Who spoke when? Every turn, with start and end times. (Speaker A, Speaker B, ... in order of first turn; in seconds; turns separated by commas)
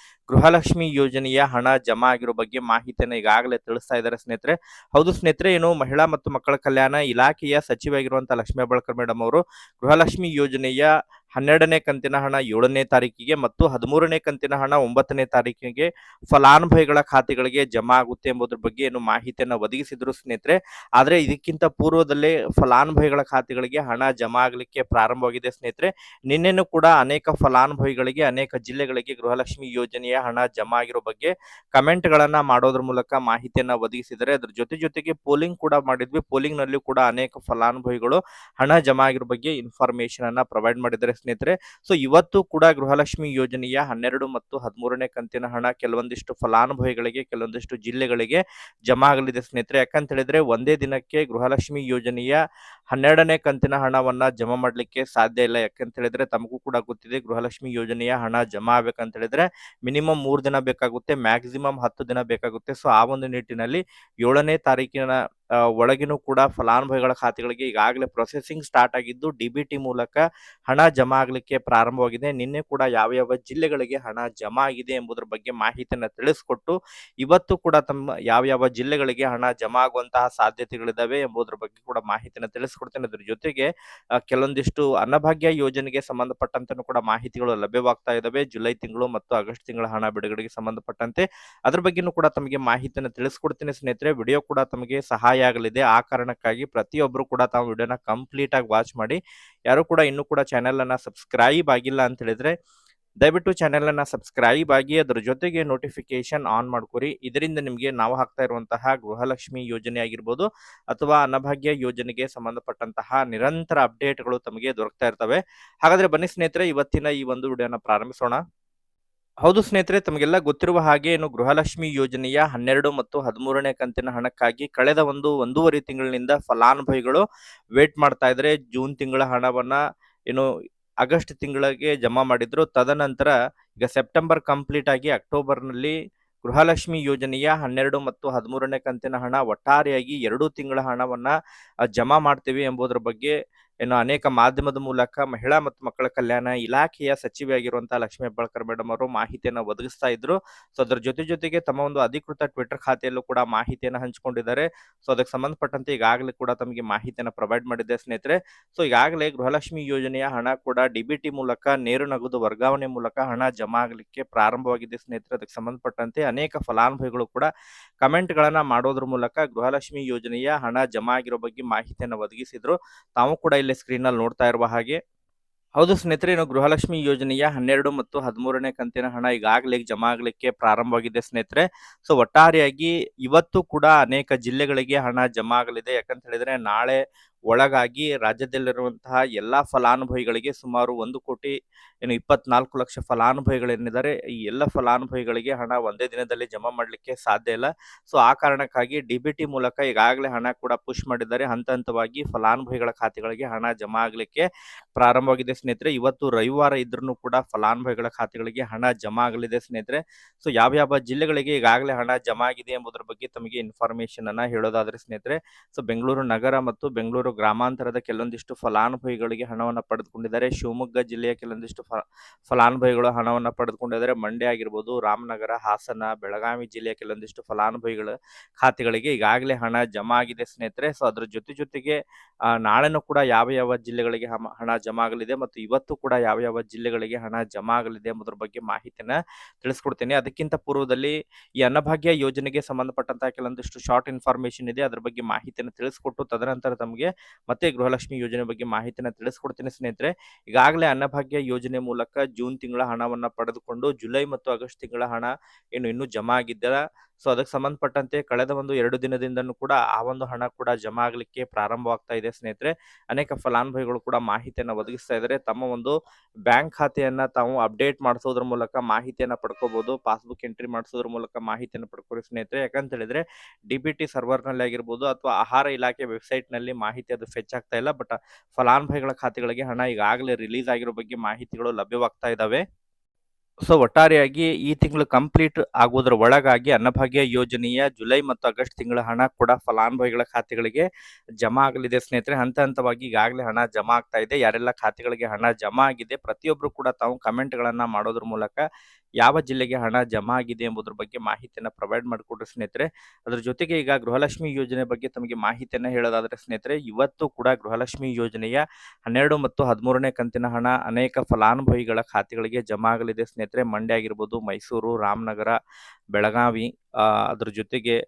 Speaker A: 0.3-52.4, Speaker A: 52.9-65.1, Speaker A: 65.8-83.7, Speaker A: 84.3-99.2, Speaker A: 99.7-102.5, Speaker A: 103.2-118.4, Speaker A: 119.4-127.2, Speaker A: 127.8-129.8, Speaker A: 131.0-141.3, Speaker A: 141.9-143.3, Speaker A: 143.8-167.5, Speaker A: 168.0-175.0, Speaker A: 175.8-187.0, Speaker A: 187.5-191.5, Speaker A: 192.1-204.4, Speaker A: 205.0-232.0, Speaker A: 232.6-265.9, Speaker A: 266.5-282.6, Speaker A: 283.7-290.9, Speaker A: 291.4-298.6, Speaker A: 299.2-315.6, Speaker A: 316.1-318.0